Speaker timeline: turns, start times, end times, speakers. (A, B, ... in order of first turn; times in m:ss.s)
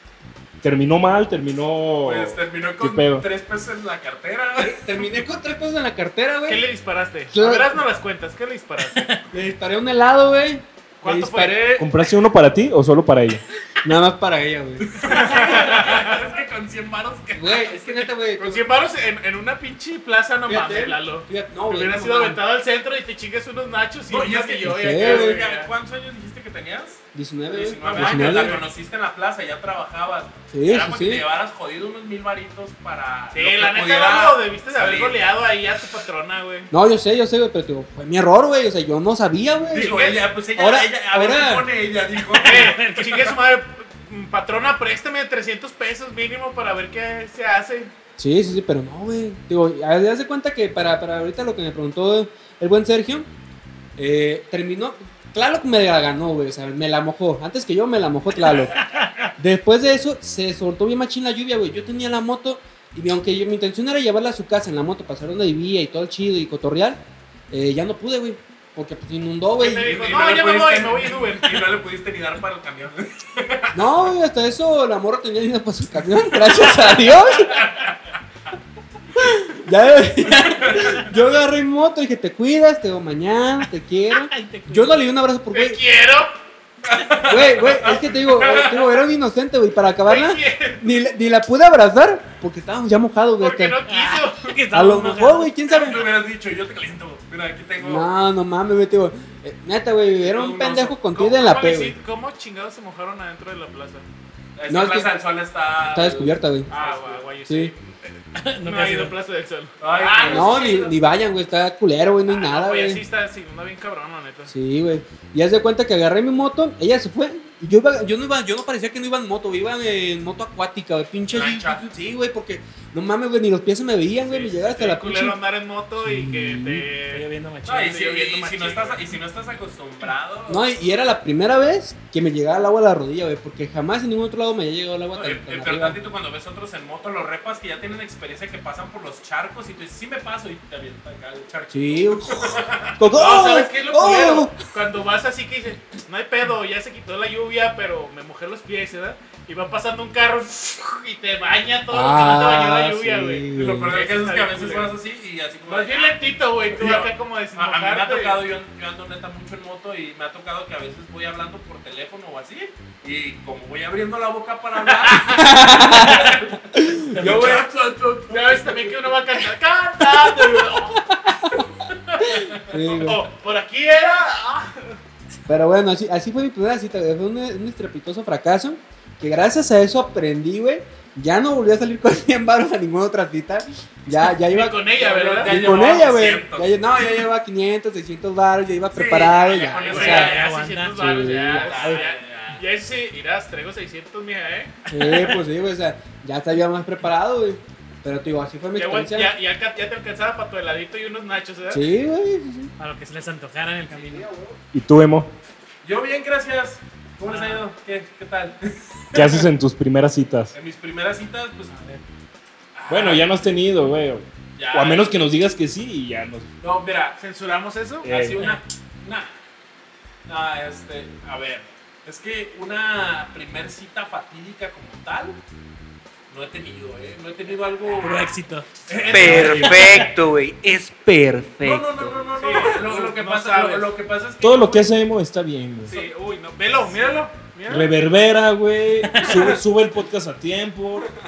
0:00.6-0:03.3 A
0:02.0-0:05.1 B
0:04.6-0:06.6 C
0:06.5-0:09.2 D
0:07.3-0:07.8 C
0:09.0-0:09.2 E
0:09.3-0:11.8 C
0:11.0-0:11.9 D
0:11.8-0:13.4 A
0:13.8-0:15.3 C
0:14.9-0:17.8 B
0:15.0-0:16.3 D
0:17.3-0:18.6 C
0:18.4-0:25.7 D
0:20.5-0:22.4 C
0:24.1-0:35.3 B
0:24.6-0:25.4 C
0:27.1-0:28.6 C
0:27.9-0:28.7 D
0:30.5-0:31.2 C
0:33.3-0:36.7 D
0:36.7-0:41.7 C
0:39.7-0:43.1 B
0:39.8-0:40.2 D
0:42.4-0:47.9 D
0:42.5-0:43.1 E
0:48.2-0:53.3 C
0:54.0-0:58.8 C
0:58.8-0:59.3 E
0:59.4-1:10.1 C
1:09.6-1:11.8 D
1:09.8-1:13.8 B
1:13.7-1:17.7 C
1:17.5-1:18.0 B
1:19.2-1:25.8 C
1:24.1-1:25.0 E
1:25.5-1:26.4 D
1:26.9-1:28.9 B
1:27.2-1:33.8 C
1:30.1-1:30.8 D
1:33.4-1:34.6 D
1:33.9-1:35.6 E
1:34.7-1:36.1 C
1:35.7-1:38.1 B
1:37.8-1:42.0 C
1:40.2-1:41.0 B
1:41.1-1:44.0 D
1:44.6-1:47.3 B
1:44.7-1:45.2 C
1:45.9-1:46.7 C
1:46.7-1:50.9 D
1:47.5-1:47.7 C
1:48.4-1:49.2 E
1:49.8-1:50.9 B
1:50.3-1:53.0 C
1:52.3-1:54.5 D
1:54.5-2:05.4 C
2:01.3-2:01.8 B
2:04.2-2:09.1 D
2:06.0-2:06.9 C
2:07.1-2:08.0 E
2:07.6-2:10.7 B
2:10.5-2:16.0 C
2:15.1-2:23.0 B
2:21.7-2:24.6 C
2:23.1-2:34.9 D
2:31.9-2:34.0 C
2:33.6-2:48.9 B
2:35.7-2:38.4 D
2:45.0-2:46.0 D
2:45.2-2:47.2 C
2:47.0-2:47.7 E
2:47.2-2:47.6 D
2:48.3-2:51.2 D
2:51.3-2:51.7 C
2:52.1-2:55.0 D
2:52.6-2:53.2 C
2:55.5-3:10.3 C
3:04.4-3:05.9 D
3:05.0-3:07.0 B
3:08.9-3:10.6 B
3:09.5-3:15.4 D
3:10.0-3:11.4 E
3:10.9-3:12.0 C
3:11.6-3:12.6 B
3:14.9-3:19.4 C
3:18.8-3:21.8 D
3:21.7-3:22.7 C
3:22.8-3:24.3 E
3:24.0-3:24.6 C
3:24.7-3:25.3 A
3:25.8-3:29.4 B
3:27.3-3:27.6 D
3:29.1-3:30.5 A
3:30.5-3:31.7 B
3:31.7-3:32.0 E
3:32.8-3:33.5 B
3:32.9-3:36.5 A
3:34.6-3:35.2 B
3:36.6-3:37.2 B
3:37.2-3:38.1 D
3:38.0-3:38.5 A
3:38.0-3:39.3 B
3:40.3-3:45.4 B
3:46.3-3:48.4 B
3:48.0-3:48.7 E
3:48.9-3:50.0 B
3:49.0-3:50.0 A
3:49.1-3:52.2 C
3:49.1-3:49.6 D
3:49.3-3:50.1 E
3:51.6-3:54.9 B
3:52.4-3:53.9 D
3:54.4-3:56.0 A
3:55.8-3:57.9 D
3:57.7-4:01.1 A